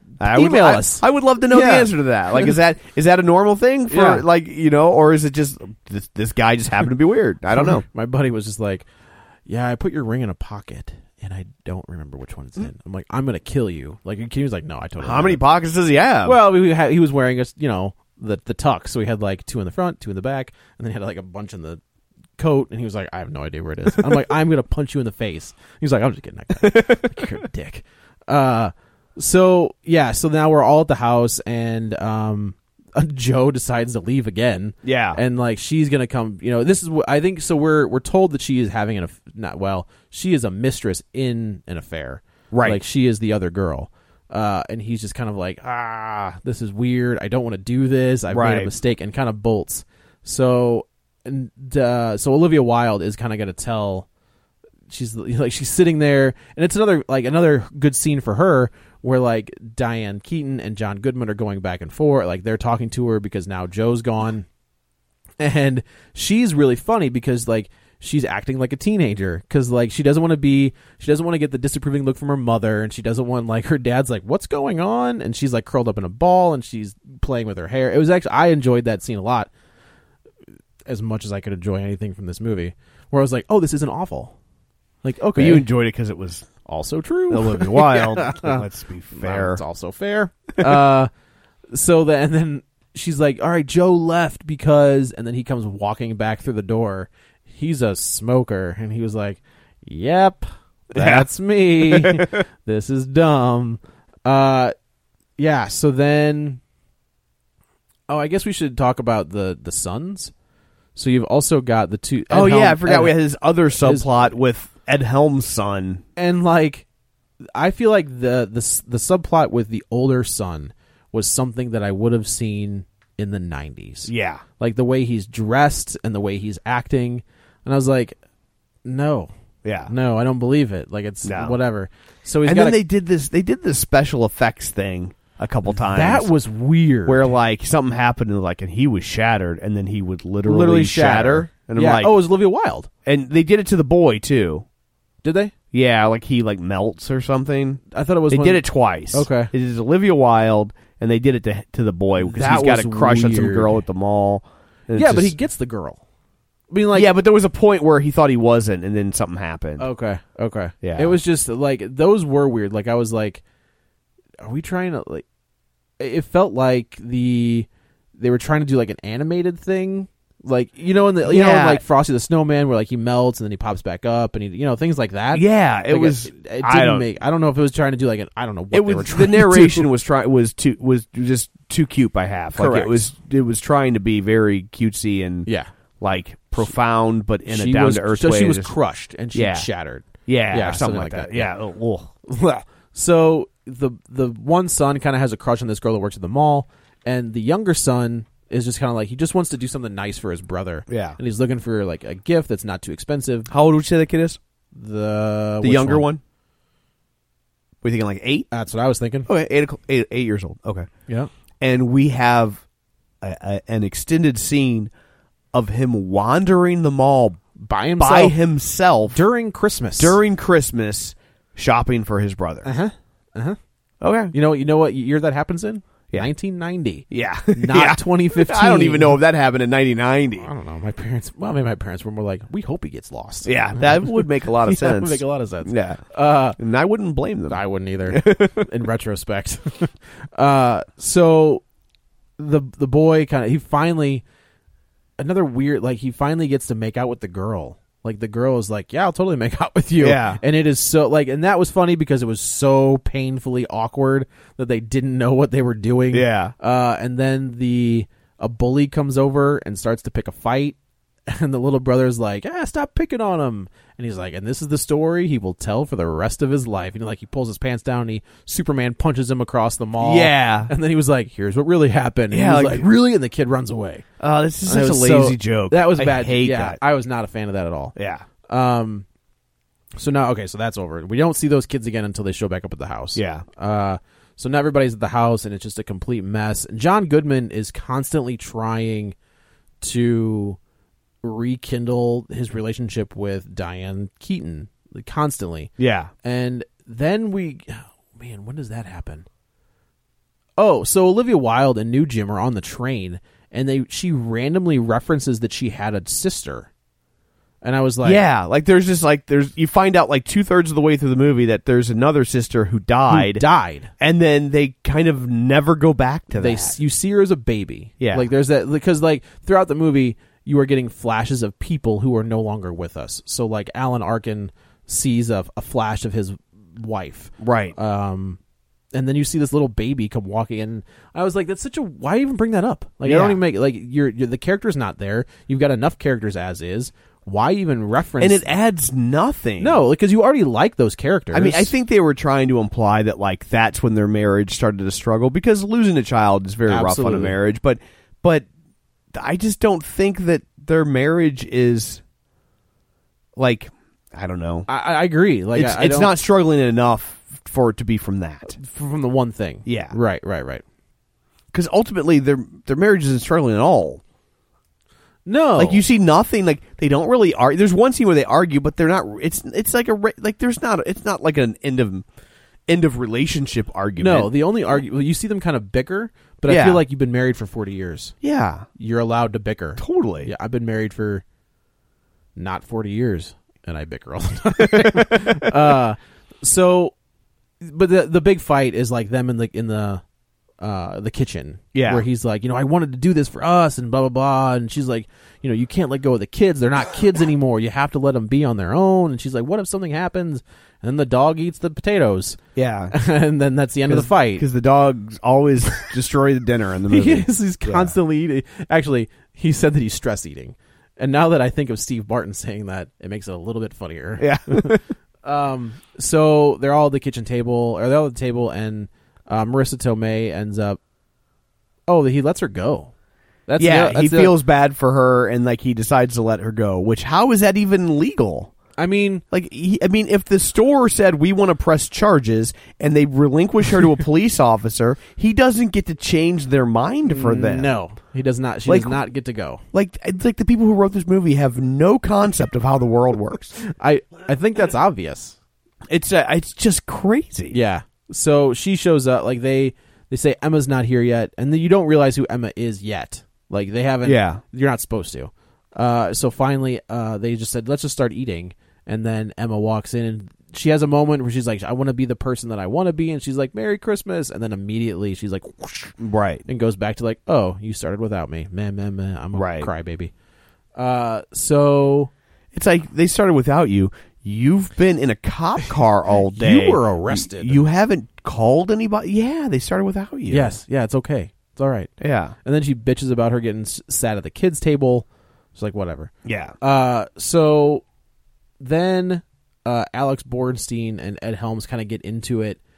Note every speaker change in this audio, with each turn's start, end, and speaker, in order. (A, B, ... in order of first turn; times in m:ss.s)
0:00.2-0:02.5 A
0:00.2-0:07.8 B
0:03.9-0:04.2 A
0:07.5-0:08.9 A
0:09.5-0:15.4 A
0:15.0-0:16.4 B
0:16.2-0:21.8 A
0:22.4-0:54.1 A
0:26.6-0:27.3 B
0:34.8-0:35.2 B
0:42.5-0:42.8 B
0:48.3-0:48.7 B
0:54.9-1:04.5 A
1:05.4-1:19.5 A
1:20.9-1:24.4 A
1:25.0-1:25.7 A
1:25.4-1:26.5 B
1:26.6-1:31.1 A
1:27.3-1:29.6 B
1:31.7-1:44.7 A
1:40.9-1:42.4 B
1:45.4-1:46.6 A
1:48.1-1:50.3 A
1:51.0-1:54.3 A
1:52.3-1:56.0 B
1:56.2-1:56.8 A
1:57.6-2:08.2 A
2:04.1-2:04.4 B
2:08.8-2:09.3 A
2:09.6-2:09.9 B
2:09.9-2:12.8 A
2:11.2-2:11.6 B
2:12.4-2:16.3 B
2:15.7-2:17.3 A
2:17.1-2:22.2 B
2:20.4-2:22.9 A
2:23.0-2:24.6 B
2:25.2-2:25.5 A
2:25.7-2:35.4 B
2:27.9-2:29.5 A
2:32.2-2:33.8 A
2:34.9-2:36.0 A
2:36.7-2:37.1 A
2:36.9-2:39.9 B
2:39.8-2:43.4 A
2:40.8-2:41.2 B
2:44.4-2:45.2 A
2:46.0-2:59.9 A
2:51.2-2:51.8 B
2:55.3-2:57.1 B
2:58.7-3:05.5 B
3:02.6-3:03.1 A
3:06.0-3:08.7 B
3:07.5-3:11.5 A
3:09.3-3:09.7 B
3:10.3-3:12.1 B
3:12.3-3:23.5 A
3:20.9-3:21.2 B
3:23.5-3:24.4 B
3:24.7-3:26.1 A
3:25.6-3:26.2 B
3:27.8-3:28.5 B
3:28.5-3:29.3 A
3:29.3-3:30.9 B
3:31.6-3:32.6 B
3:33.2-3:34.9 B
3:35.5-3:37.4 B
3:37.6-3:38.4 A
3:38.0-3:39.2 B
3:39.1-3:40.2 A
3:40.0-3:42.7 B
3:42.6-3:43.6 A
3:44.0-3:44.3 B
3:44.3-3:49.2 A
3:47.1-3:50.5 B
3:50.4-3:56.6 A
3:53.4-3:56.0 B
3:56.6-3:58.7 B
3:57.5-4:01.6 A
4:02.4-4:04.2 A
4:05.2-4:20.8 A
4:10.0-4:10.4 B
4:16.1-4:16.5 B
4:21.3-4:34.0 A
4:30.0-4:30.7 B
4:32.3-4:32.9 B
4:34.2-4:36.8 B
4:34.6-4:38.0 A
4:38.0-4:38.2 B
4:38.5-4:39.0 A
4:40.0-4:49.2 A
4:43.2-4:43.4 B
4:49.8-4:50.6 A
4:51.2-4:55.7 A
4:55.8-4:56.1 B
4:56.2-4:59.3 A
5:00.6-5:06.7 A
5:07.6-5:08.2 A
5:08.0-5:13.4 B
5:13.1-5:13.9 A
5:14.0-5:16.8 B
5:16.3-5:28.4 A
5:18.0-5:18.3 B
5:27.4-5:27.8 B
5:28.9-5:38.5 A
5:33.0-5:33.4 B
5:38.2-5:39.8 B
5:39.6-5:41.7 A
5:41.3-5:48.5 B
5:46.7-5:47.4 A
5:49.1-5:52.0 B
5:53.4-5:54.7 B
5:54.7-5:56.2 A
5:55.5-5:58.6 B
5:58.5-6:00.6 A
5:59.6-6:00.0 B
6:01.5-6:04.0 B
6:05.3-6:05.8 A
6:05.6-6:12.0 B
6:12.7-6:14.4 B
6:14.0-6:18.2 A
6:16.5-6:16.8 B
6:18.2-6:18.7 B
6:18.8-6:21.2 A
6:19.8-6:20.3 B
6:22.4-6:26.9 A
6:24.6-6:25.5 B
6:27.6-6:30.0 A
6:30.6-6:42.4 A
6:31.7-6:32.1 B
6:42.6-6:43.0 B
6:42.9-6:44.5 A
6:43.8-6:48.0 B
6:46.9-7:00.8 A
6:54.2-6:54.8 B
7:01.9-7:02.9 A
7:03.5-7:04.4 A
7:03.6-7:08.5 B
7:08.8-7:09.2 A
7:09.3-7:17.7 B
7:17.0-7:19.6 A
7:18.7-7:19.0 B
7:19.7-7:23.6 B
7:23.6-7:25.4 A
7:25.9-7:27.6 B
7:27.5-7:46.0 A
7:34.0-7:34.4 B
7:46.0-7:46.4 B
7:46.5-7:50.1 A
7:49.3-7:49.7 B
7:50.8-7:52.1 A
7:52.5-8:00.6 B
7:56.3-7:57.6 A
8:00.3-8:01.9 A
8:02.0-8:02.4 B
8:02.4-8:07.8 A
8:06.2-8:06.6 B
8:08.6-8:12.6 A